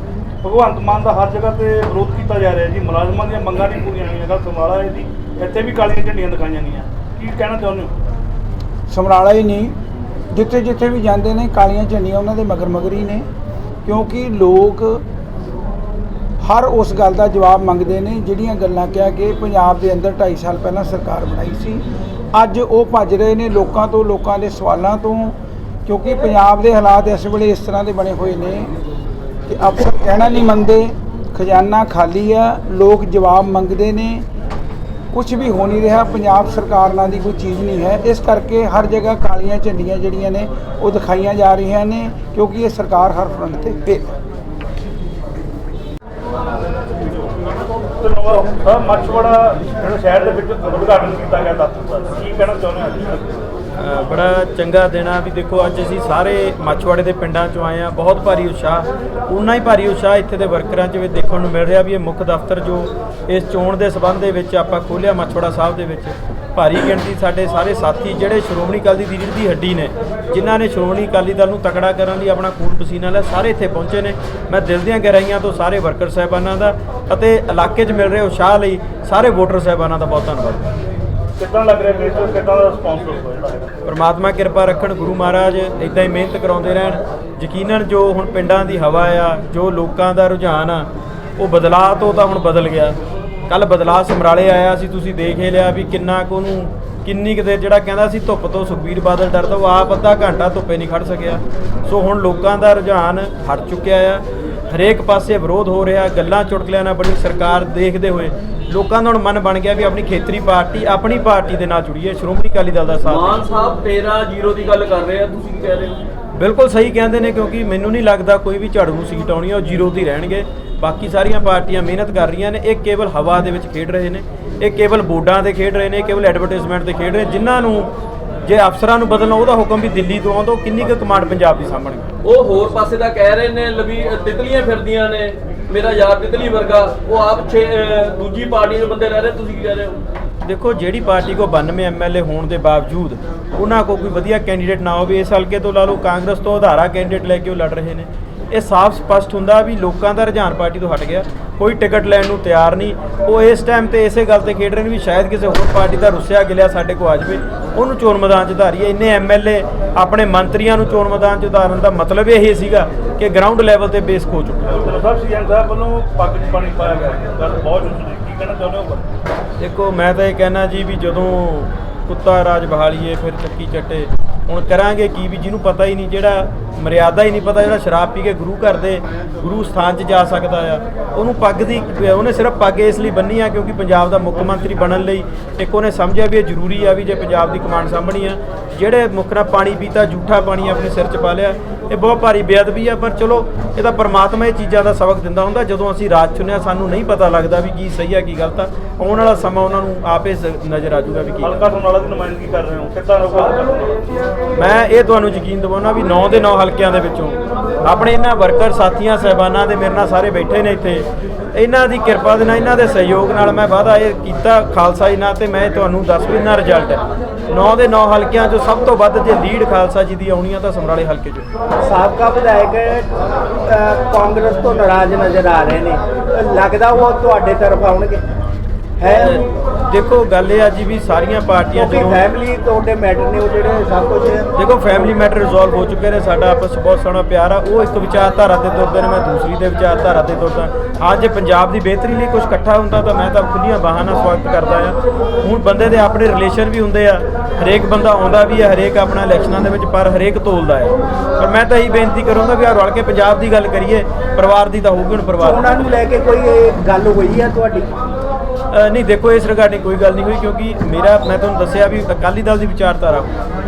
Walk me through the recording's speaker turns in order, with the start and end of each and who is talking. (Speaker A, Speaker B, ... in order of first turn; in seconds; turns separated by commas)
Speaker A: 0.4-7.9, Speaker B: 8.9-9.8, Speaker B: 10.3-13.3, Speaker B: 13.8-15.0, Speaker B: 16.4-28.7, Speaker B: 29.5-34.3, Speaker B: 35.1-44.1, Speaker A: 47.0-53.4, Speaker C: 53.7-80.7, Speaker A: 81.4-83.7, Speaker C: 83.8-113.4, Speaker D: 113.1-116.0, Speaker C: 116.3-127.9, Speaker C: 128.4-132.1, Speaker D: 132.2-140.0, Speaker C: 140.4-164.8, Speaker A: 164.7-169.0, Speaker C: 169.6-201.6, Speaker A: 201.4-204.0, Speaker C: 204.6-221.5, Speaker E: 221.8-223.1, Speaker E: 223.6-228.2, Speaker E: 229.0-229.5, Speaker C: 229.2-232.2, Speaker E: 231.7-234.5, Speaker C: 234.5-255.7, Speaker E: 255.4-258.0, Speaker C: 258.7-263.3